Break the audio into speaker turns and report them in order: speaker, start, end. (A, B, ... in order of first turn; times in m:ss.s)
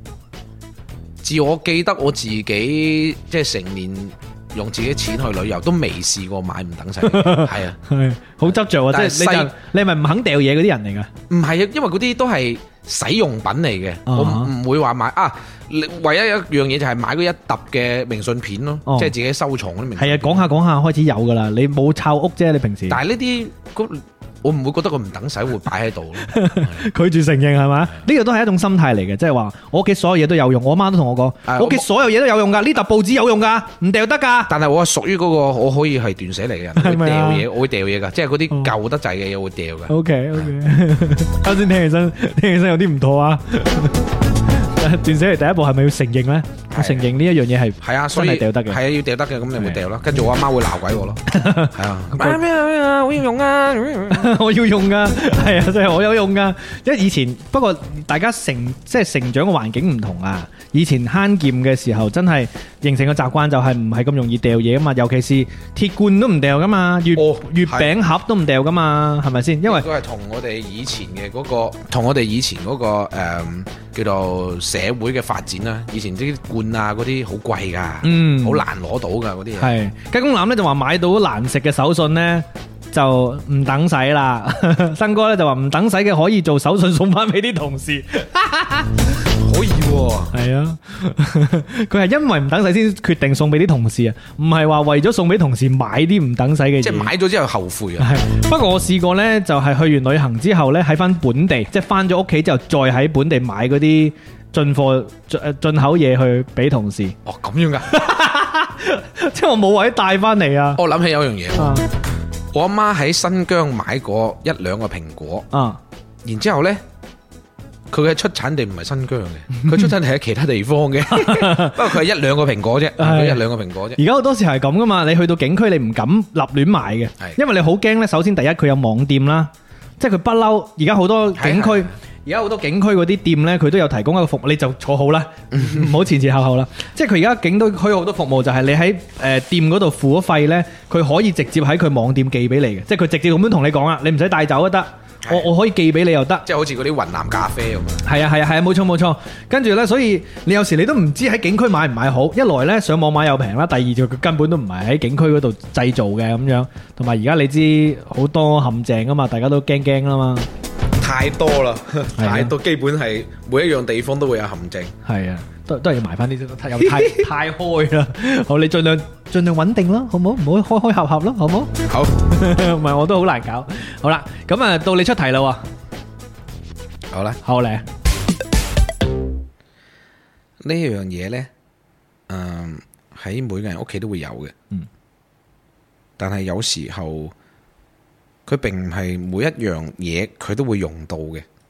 0:01.2-0:07.8 A
0:07.0-0:11.1 B
0:08.5-0:09.5 A
0:11.3-0:20.5 A
0:14.0-0:14.5 B
0:18.8-0:19.1 B
0:20.0-0:23.0 B
0:22.9-0:26.8 A
0:26.2-0:34.5 B
0:31.4-0:31.8 A
0:34.5-0:40.4 A
0:36.8-0:37.4 B
0:39.9-0:48.8 B
0:46.7-0:47.0 A
0:47.8-0:54.3 A
0:51.3-0:52.4 B
0:54.1-1:09.9 B
1:07.1-1:07.9 A
1:09.6-1:19.7 A
1:18.0-1:18.6 B
1:19.6-1:29.0 B
1:29.3-1:30.3 A
1:30.3-1:37.1 B
1:36.8-1:38.1 A
1:38.0-1:47.2 B
1:47.2-1:47.9 A
1:47.8-1:50.8 B
1:50.8-1:51.8 A
1:51.6-1:51.8 B
1:52.5-1:55.4 A
1:55.5-1:55.8 B
1:56.2-1:56.8 A
1:57.9-2:04.0 A
2:01.1-2:02.0 B
2:03.0-2:03.4 B
2:04.0-2:26.4 B
2:11.4-2:11.9 A
2:25.2-2:25.5 A
2:26.4-2:28.0 A
2:28.0-2:40.5 B
2:41.0-2:44.9 A
2:42.2-2:42.5 B
2:45.0-2:55.6 B
2:46.9-2:47.2 A
2:51.8-2:52.1 A
2:57.1-2:57.4 A
2:57.4-2:57.8 B
3:00.6-3:01.5 A
3:02.3-3:04.5 A
3:06.2-3:07.3 A
3:08.4-3:11.4 A